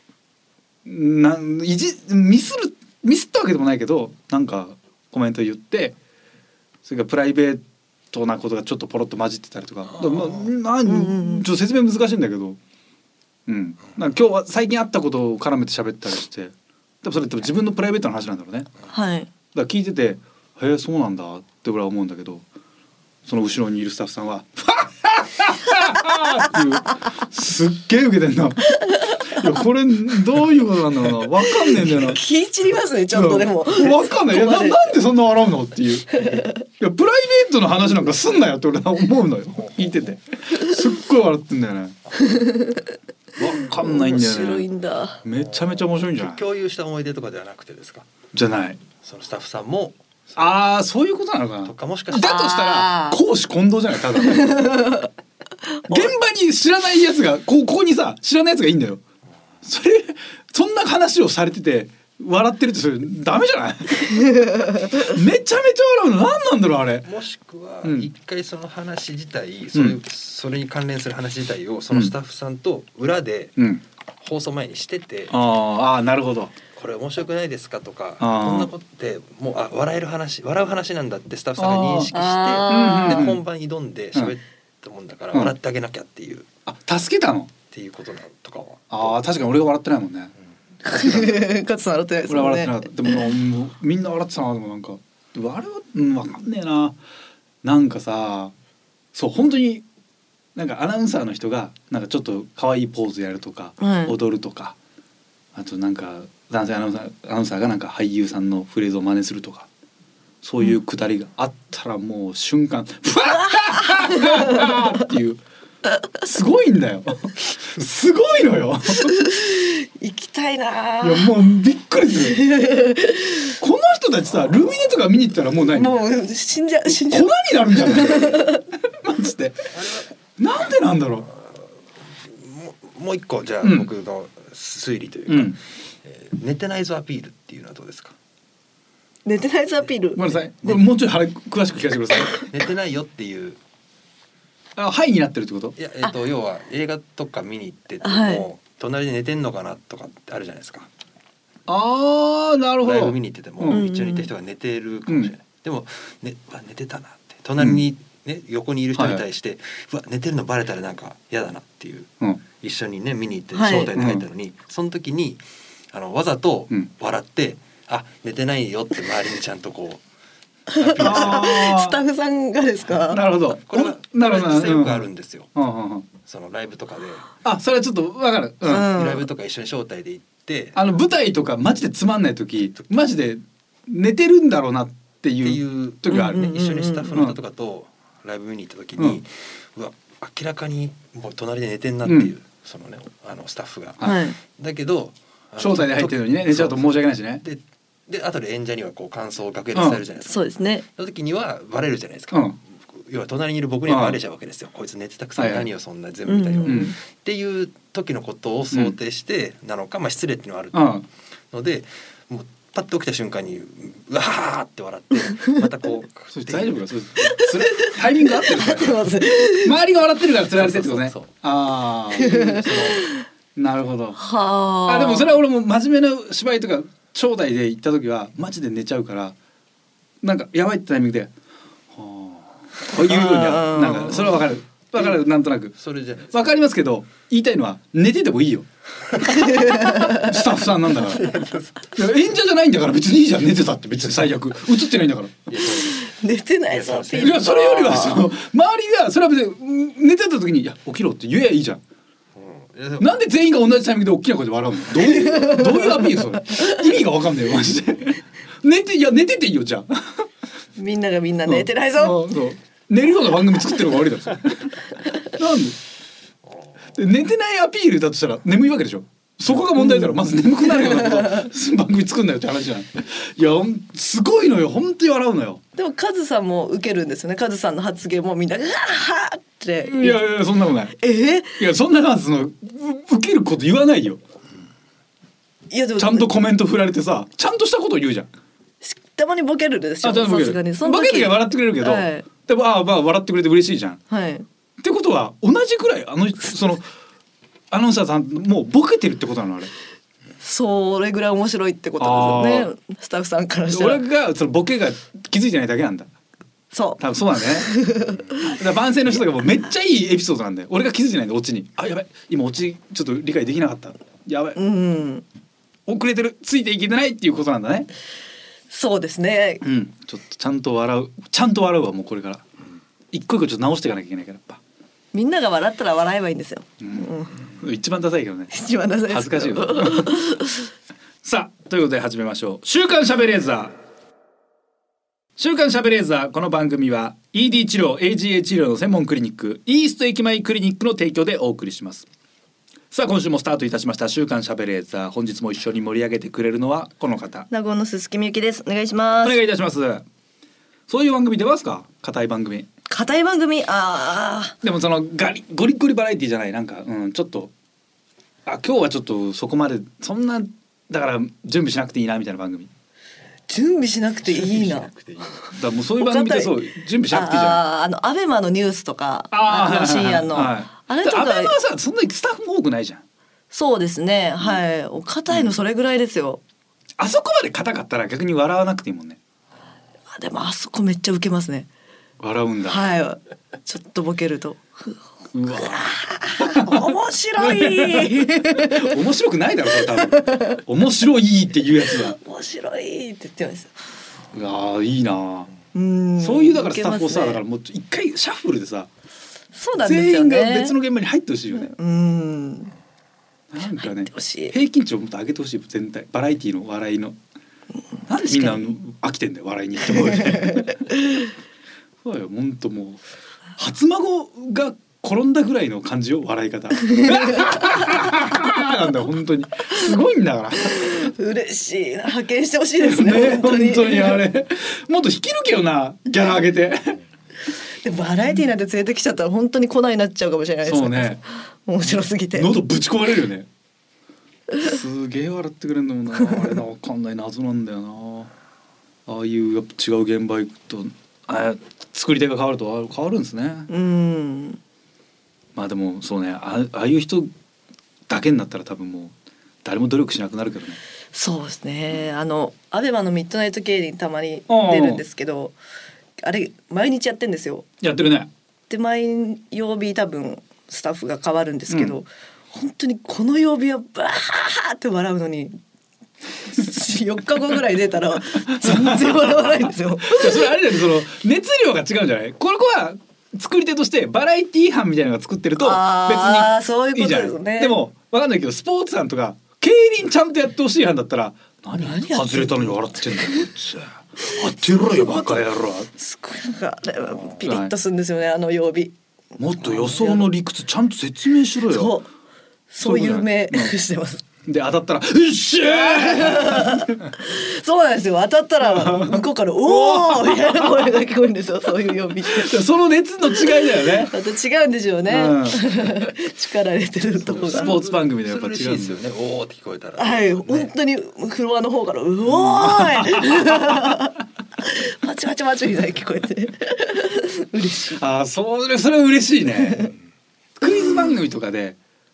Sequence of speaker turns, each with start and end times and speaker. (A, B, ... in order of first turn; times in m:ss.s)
0:00.8-0:06.0 A
0:06.8-0:12.6 A
0:10.8-0:11.4 B
0:13.5-0:18.7 A
0:18.9-0:19.3 B
0:19.5-0:22.4 A
0:23.2-0:32.2 A
0:28.7-0:29.4 B
0:31.4-0:34.9 B
0:33.1-0:42.0 A
0:36.1-0:36.6 B
0:42.1-0:45.2 B
0:43.4-0:44.7 A
0:45.2-0:46.4 A
0:45.3-0:48.1 C
0:48.3-0:48.8 A
0:49.0-0:50.6 C
0:50.4-0:54.7 A
0:51.6-0:52.4 C
0:52.1-0:53.2 B
0:54.2-0:55.1 B
0:55.7-0:56.1 B
0:55.9-0:59.0 A
0:59.6-1:07.1 A
1:04.2-1:04.9 B
1:07.0-1:13.6 C
1:13.6-1:13.8 A
1:14.2-1:15.4 C
1:15.3-1:16.5 A
1:16.7-1:26.5 C
1:18.2-1:18.7 A
1:21.6-1:22.1 A
1:22.1-1:23.3 B
1:22.7-1:23.4 A
1:26.6-1:27.5 A
1:27.7-1:29.2 C
1:28.9-1:30.3 A
1:30.8-1:33.2 B
1:30.9-1:31.4 A
1:32.3-1:37.0 A
1:37.6-1:38.5 A
1:39.1-1:39.8 A
1:40.5-1:44.8 A
1:43.8-1:44.2 B
1:45.5-1:49.7 A
1:50.4-1:55.4 A
1:53.7-1:54.6 B
1:56.2-1:59.2 A
1:59.0-2:01.3 B
2:01.0-2:02.4 A
2:02.2-2:03.5 B
2:03.6-2:05.9 A
2:05.7-2:08.6 B
2:06.9-2:09.7 A
2:09.7-2:10.1 C
2:10.4-2:11.3 A
2:12.2-2:18.2 C
2:13.6-2:13.9 A
2:15.3-2:15.6 A
2:19.2-2:20.4 B
2:20.1-2:22.4 A
2:22.3-2:23.6 C
2:24.8-2:25.7 A
2:25.8-2:30.9 C
2:28.0-2:28.4 B
2:31.7-2:33.8 A
2:32.8-2:50.0 C
2:33.7-2:34.3 B
2:38.9-2:39.2 A
2:43.5-2:43.9 B
2:43.9-2:44.2 A
2:50.7-2:53.3 B
2:50.8-2:52.0 A
2:53.1-2:56.1 A
2:53.7-2:55.5 C
2:56.2-2:57.3 C
2:57.4-2:58.9 A
2:58.6-2:59.2 B
2:58.8-3:00.8 C
3:00.7-3:06.4 A
3:05.4-3:31.0 C
3:06.1-3:07.1 B
3:12.0-3:12.3 A
3:14.0-3:14.4 B
3:15.6-3:17.4 A
3:19.7-3:20.0 A
3:20.3-3:20.8 B
3:22.3-3:22.6 A
3:23.9-3:24.2 A
3:25.4-3:25.7 A
3:26.2-3:27.0 B
3:26.6-3:26.9 A
3:30.7-3:31.0 A
3:31.5-3:36.8 C
3:36.3-3:39.0 A
3:37.2-3:39.7 B
3:39.6-3:42.8 A
3:40.5-3:41.3 C
3:42.1-3:43.1 B
3:42.2-3:43.0 C
3:43.6-3:44.2 A
3:44.2-3:45.4 B
3:44.8-3:49.4 A
3:50.2-3:51.3 A
3:51.9-3:55.7 A
3:53.0-3:54.4 B
3:55.7-3:56.6 C
3:56.3-3:58.7 A
3:59.2-4:00.3 B
3:59.4-4:01.2 A
4:01.0-4:02.0 C
4:01.9-4:05.5 A
4:05.5-4:06.1 C
4:05.9-4:08.3 B
4:06.7-4:07.5 C
4:07.1-4:11.8 A
4:12.3-4:13.1 C
4:13.0-4:20.3 A
4:15.0-4:16.8 B
4:20.8-4:22.3 B
4:21.4-4:25.8 A
4:26.5-4:26.9 C
4:26.9-4:35.6 A
4:29.8-4:30.1 B
4:30.8-4:31.4 B
4:35.8-4:40.3 B
4:39.8-4:40.9 A
4:41.0-4:41.6 B
4:41.6-4:44.2 A
4:45.7-4:46.3 B
4:46.0-4:48.3 A
4:48.8-4:52.3 B
4:50.0-4:54.0 A
4:54.1-4:54.4 B
4:54.8-4:56.9 A
4:57.7-4:59.7 A
5:00.4-5:04.0 B
5:02.0-5:02.7 A
5:03.7-5:06.1 A
5:06.7-5:07.0 B
5:07.0-5:07.8 A
5:07.6-5:08.4 B
5:08.4-5:14.6 A
5:14.6-5:15.2 B
5:15.8-5:17.9 A
5:18.7-5:19.6 B
5:19.6-5:22.4 A
5:23.1-5:24.6 A
5:25.1-5:27.4 B
5:26.8-5:28.5 A
5:28.5-5:30.7 B
5:29.1-5:30.2 A
5:31.2-5:33.7 A
5:35.4-5:42.1 A
5:42.9-5:47.5 A
5:47.5-5:49.4 B
5:49.2-5:50.0 A
5:50.9-5:52.7 A
5:52.9-5:54.6 B
5:54.6-5:57.5 A
5:58.4-6:02.7 A
6:03.5-6:04.9 B
6:04.2-6:05.5 C
6:05.5-6:07.6 A
6:06.0-6:06.6 B
6:07.1-6:11.6 B
6:09.3-6:13.0 A
6:13.5-6:16.4 B
6:17.0-6:19.2 A
6:20.1-6:21.7 B
6:22.2-6:22.8 A
6:22.7-6:29.0 B
6:25.3-6:32.2 A
6:29.9-6:30.6 B
6:31.8-6:33.7 B
6:34.3-6:35.5 A
6:35.7-6:37.4 B
6:36.2-6:38.9 A
6:39.6-6:40.8 B
6:39.8-6:41.7 A
6:41.6-6:42.7 B
6:43.5-6:47.2 A
6:43.8-6:44.6 B
6:48.1-6:48.7 B
6:48.1-6:50.8 A
6:49.9-6:51.3 B
6:52.0-6:53.0 A
6:53.6-7:01.1 A
6:56.9-6:57.5 B
7:00.7-7:04.2 B
7:02.8-7:07.0 A
7:07.8-7:12.6 B
7:10.6-7:11.2 A
7:12.3-7:13.5 A
7:14.6-7:18.3 A
7:19.1-7:23.7 A
7:23.7-7:24.6 B
7:25.6-7:27.3 A
7:28.1-7:30.8 A
7:31.1-7:35.6 B
7:34.5-7:35.0 A
7:36.2-7:37.7 B
7:37.8-7:38.3 A
7:38.7-7:45.6 B
7:41.7-7:41.9 A
7:46.4-7:50.5 B
7:48.5-8:05.9 A
7:55.6-7:57.8 B
8:01.8-8:03.5 B
8:04.3-8:08.9 B
8:07.4-8:07.7 A
8:09.4-8:12.0 A
8:09.6-8:10.3 B
8:11.7-8:12.1 B
8:12.7-8:14.2 B
8:12.8-8:13.7 A
8:14.4-8:17.1 A
8:15.7-8:22.6 B
8:18.6-8:21.0 A
8:22.2-8:24.1 A
8:23.3-8:27.7 B
8:25.1-8:25.7 A
8:27.2-8:30.7 C
8:27.5-8:29.0 A
8:30.0-8:38.0 B
8:32.3-8:34.0 A
8:38.0-8:39.9 A
8:39.6-8:39.9 B
8:40.6-8:41.8 A
8:40.6-8:41.1 B